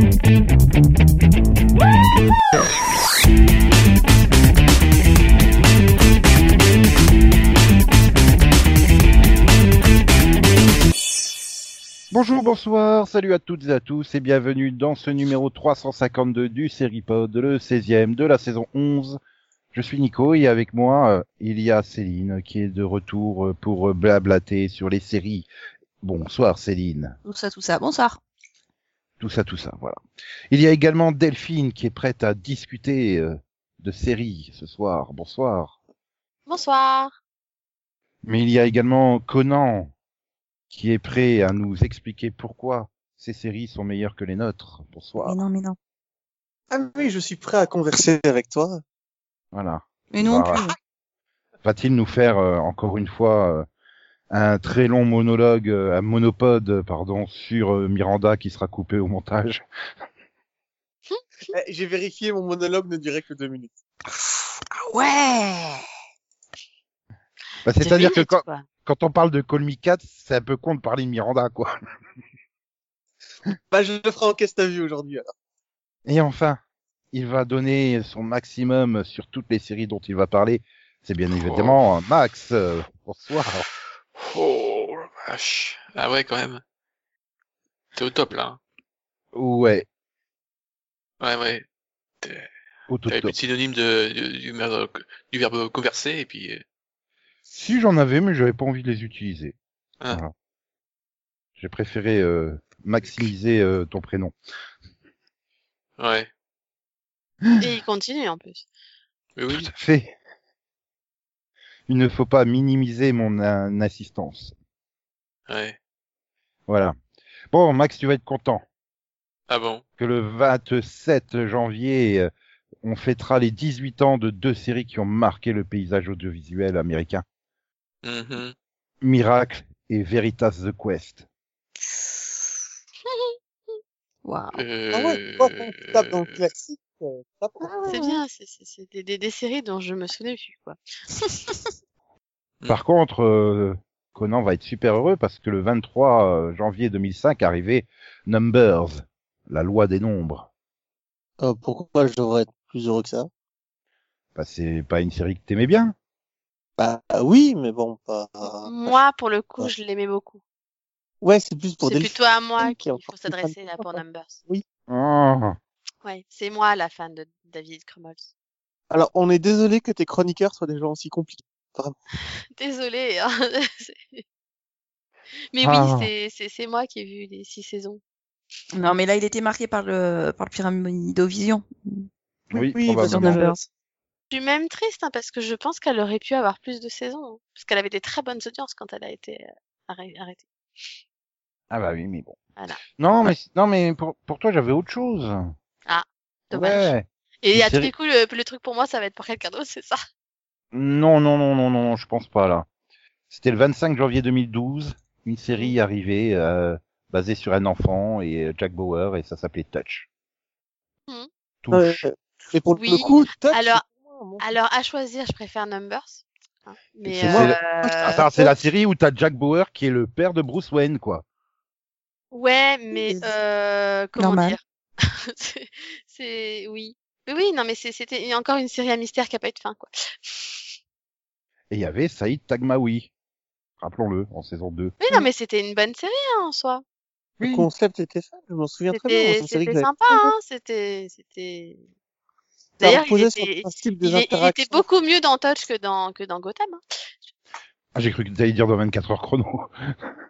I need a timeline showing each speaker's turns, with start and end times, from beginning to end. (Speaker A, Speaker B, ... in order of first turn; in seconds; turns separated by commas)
Speaker A: 12.1-19.2, Speaker A: 19.7-25.5, Speaker A: 26.0-27.2, Speaker B: 27.3-28.2, Speaker A: 29.2-30.0, Speaker A: 30.5-35.8, Speaker C: 36.5-37.1, Speaker A: 38.2-39.9, Speaker A: 40.7-45.4, Speaker B: 45.2-45.8, Speaker D: 46.7-48.8, Speaker A: 49.5-50.7, Speaker B: 50.1-50.8, Speaker A: 51.6-53.7, Speaker A: 54.3-59.6, Speaker D: 61.5-63.8, Speaker B: 64.3-65.8, Speaker A: 67.7-71.8, Speaker C: 67.8-68.7, Speaker D: 73.7-75.3, Speaker A: 76.1-76.6, Speaker A: 77.1-83.7, Speaker E: 81.3-81.8, Speaker E: 84.2-86.6, Speaker E: 88.0-88.6, Speaker A: 89.3-89.9, Speaker E: 91.2-91.7, Speaker E: 92.2-92.5, Speaker A: 92.9-93.3, Speaker E: 93.1-96.6, Speaker A: 97.5-99.6, Speaker A: 101.6-104.3, Speaker E: 106.0-106.3, Speaker C: 107.6-108.7, Speaker E: 109.4-109.7, Speaker A: 109.5-110.1, Speaker A: 111.9-114.5, Speaker E: 115.5-115.8, Speaker A: 116.7-117.0, Speaker A: 117.5-118.7, Speaker E: 119.5-119.8, Speaker A: 120.0-122.3, Speaker A: 122.8-127.2, Speaker E: 128.0-128.6, Speaker A: 129.0-131.2, Speaker C: 133.1-133.4, Speaker B: 134.2-134.6, Speaker E: 134.5-136.4, Speaker D: 134.9-137.7, Speaker B: 137.6-138.2, Speaker C: 137.9-140.8, Speaker A: 142.7-150.5, Speaker D: 151.4-153.3, Speaker A: 154.3-155.9, Speaker D: 156.8-158.9, Speaker C: 158.7-160.4, Speaker D: 161.2-164.6, Speaker C: 161.8-164.4, Speaker A: 164.9-165.6, Speaker C: 166.0-168.3, Speaker D: 168.9-172.0, Speaker C: 172.6-174.2, Speaker C: 175.5-178.0, Speaker A: 175.6-176.1, Speaker B: 178.7-182.1, Speaker D: 182.5-183.7, Speaker A: 182.5-183.4, Speaker B: 183.1-183.6, Speaker C: 184.3-190.4, Speaker A: 191.7-192.4, Speaker A: 193.0-195.5, Speaker C: 195.9-200.0, Speaker A: 196.5-197.9, Speaker A: 200.7-202.7, Speaker A: 203.3-210.1, Speaker A: 211.6-212.0, Speaker D: 211.7-214.5, Speaker C: 212.8-213.8, Speaker C: 214.4-218.2, Speaker A: 217.1-221.2, Speaker D: 217.3-218.5, Speaker C: 222.3-230.8, Speaker B: 223.0-223.3, Speaker B: 224.2-224.6, Speaker A: 231.7-233.1, Speaker A: 233.8-235.0, Speaker C: 235.0-236.8, Speaker D: 237.4-240.3, Speaker A: 237.4-237.7, Speaker C: 238.9-241.8, Speaker D: 242.8-244.8, Speaker C: 242.8-246.8, Speaker A: 247.9-250.0